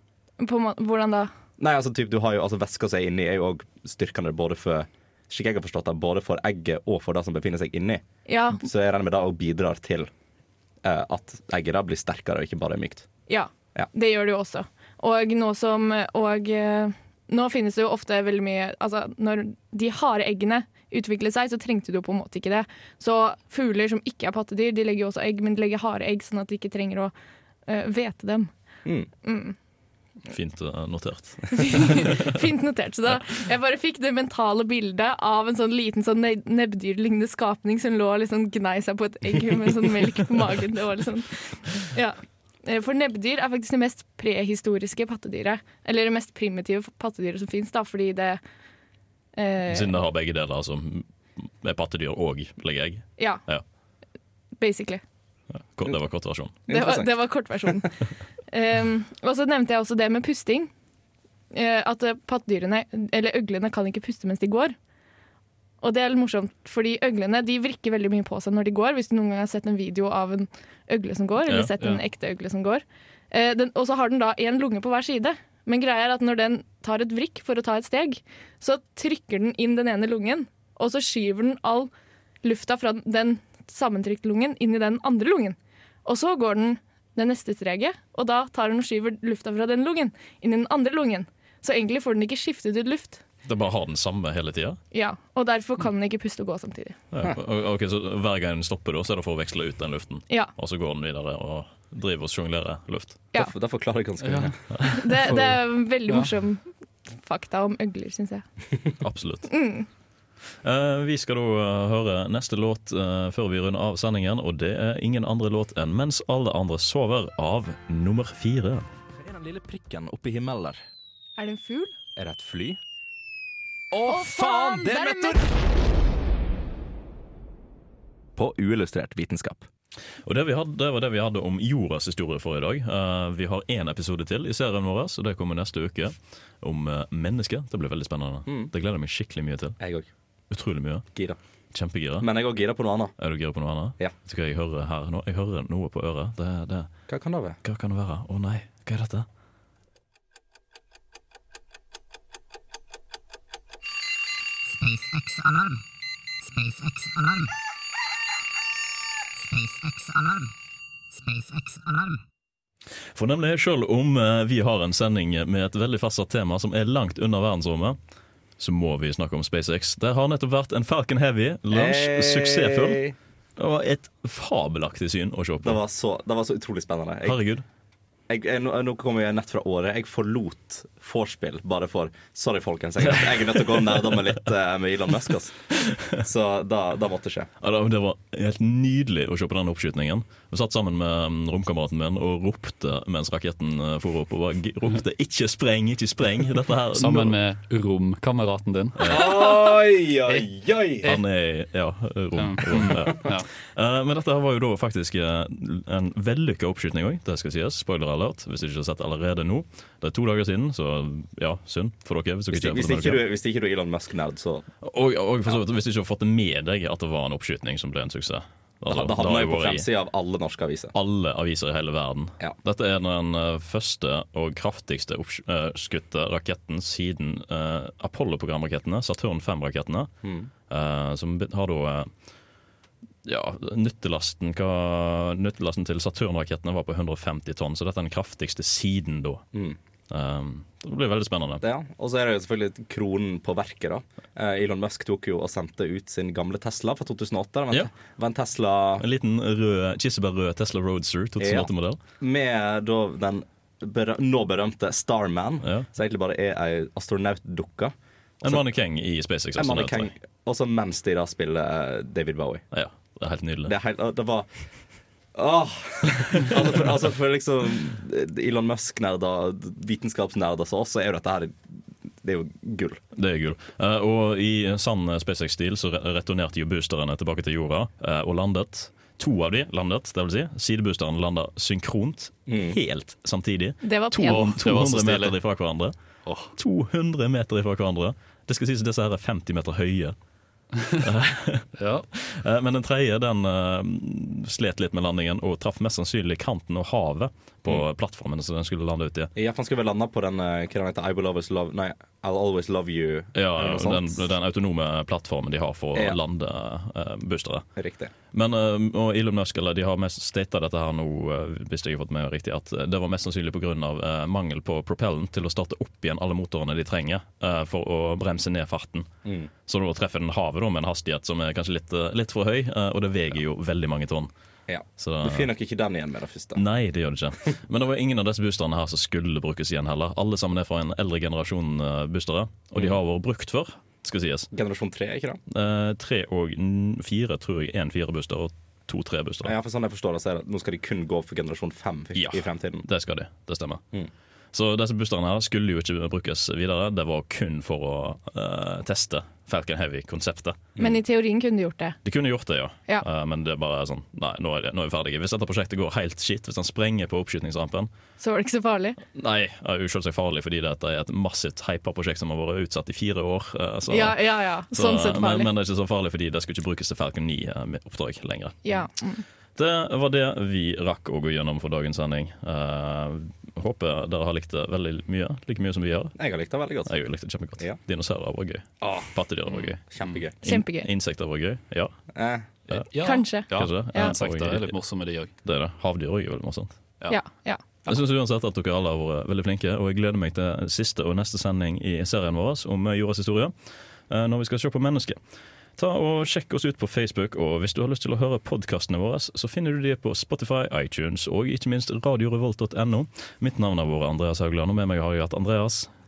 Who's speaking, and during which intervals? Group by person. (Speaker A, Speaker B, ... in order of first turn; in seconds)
Speaker A: 0.4-1.3, 8.3-8.6, 13.3-27.1, 27.7-28.5, 29.2-29.6, 31.5-48.4, 49.4-50.0, 54.6-55.0, 56.7-60.7, 61.5-64.8, 65.8-81.9, 82.4-93.2, 94.9-97.0, 104.9-108.5, 109.5-109.9, 121.4-122.0, 124.1-125.4, 283.8-284.6, 350.8-352.0, 358.2-359.0, 363.9-365.5, 368.6-369.2, 380.4-380.9, 383.0-384.2, 387.1-387.6
Speaker B: 1.6-8.0, 8.5-10.1, 10.8-13.1, 56.7-57.8, 103.3-104.6, 119.2-120.8, 122.2-122.8, 123.9-125.5, 128.4-129.7, 139.8-140.1, 142.2-143.1, 147.1-147.6, 171.7-173.2, 175.6-177.4, 178.3-185.6, 186.2-187.5, 199.0-201.1, 212.5-214.7, 218.9-220.9, 230.2-230.5, 241.6-249.0, 251.4-258.6, 259.6-262.6, 263.7-264.5, 265.4-273.0, 282.5-282.8, 299.4-304.2, 307.8-308.1, 319.2-319.5, 324.7-326.6, 334.5-335.4, 339.4-342.9, 376.2-376.9, 378.8-379.1, 379.9-380.4, 382.1-382.5
Speaker C: 30.3-32.3, 49.7-53.6, 55.6-56.6, 71.5-71.7, 93.4-94.8, 97.1-103.2, 109.0-109.5, 110.6-118.9, 130.2-139.8, 140.5-141.1, 141.7-142.3, 143.2-146.9, 147.6-149.3, 163.1-168.0, 168.6-173.0, 173.6-175.8, 177.2-177.7, 183.2-184.3, 185.7-186.2, 187.6-197.4, 199.0-199.5, 201.0-213.2, 214.8-219.9, 220.9-230.1, 230.7-232.1, 233.2-239.4, 240.1-241.6, 249.0-252.0, 258.4-260.1, 262.7-263.7, 273.1-285.9, 286.6-290.2, 291.0-299.3, 303.4-307.6, 308.3-319.1, 319.7-324.3, 325.0-325.5, 326.6-334.5, 335.5-339.5, 342.1-343.8, 344.5-350.7, 352.1-357.9, 359.1-368.7, 369.6-376.2, 376.9-379.8, 380.4-381.9, 383.5-384.8, 385.4-386.8, 387.9-393.5, 394.1-395.2, 395.8-405.9
Speaker D: 104.2-106.3, 196.9-199.4, 202.3-203.5, 284.2-285.4, 286.3-286.5, 291.8-292.1, 382.7-385.3
Speaker E: 154.7-155.8, 156.4-157.5, 159.4-160.5, 161.1-162.2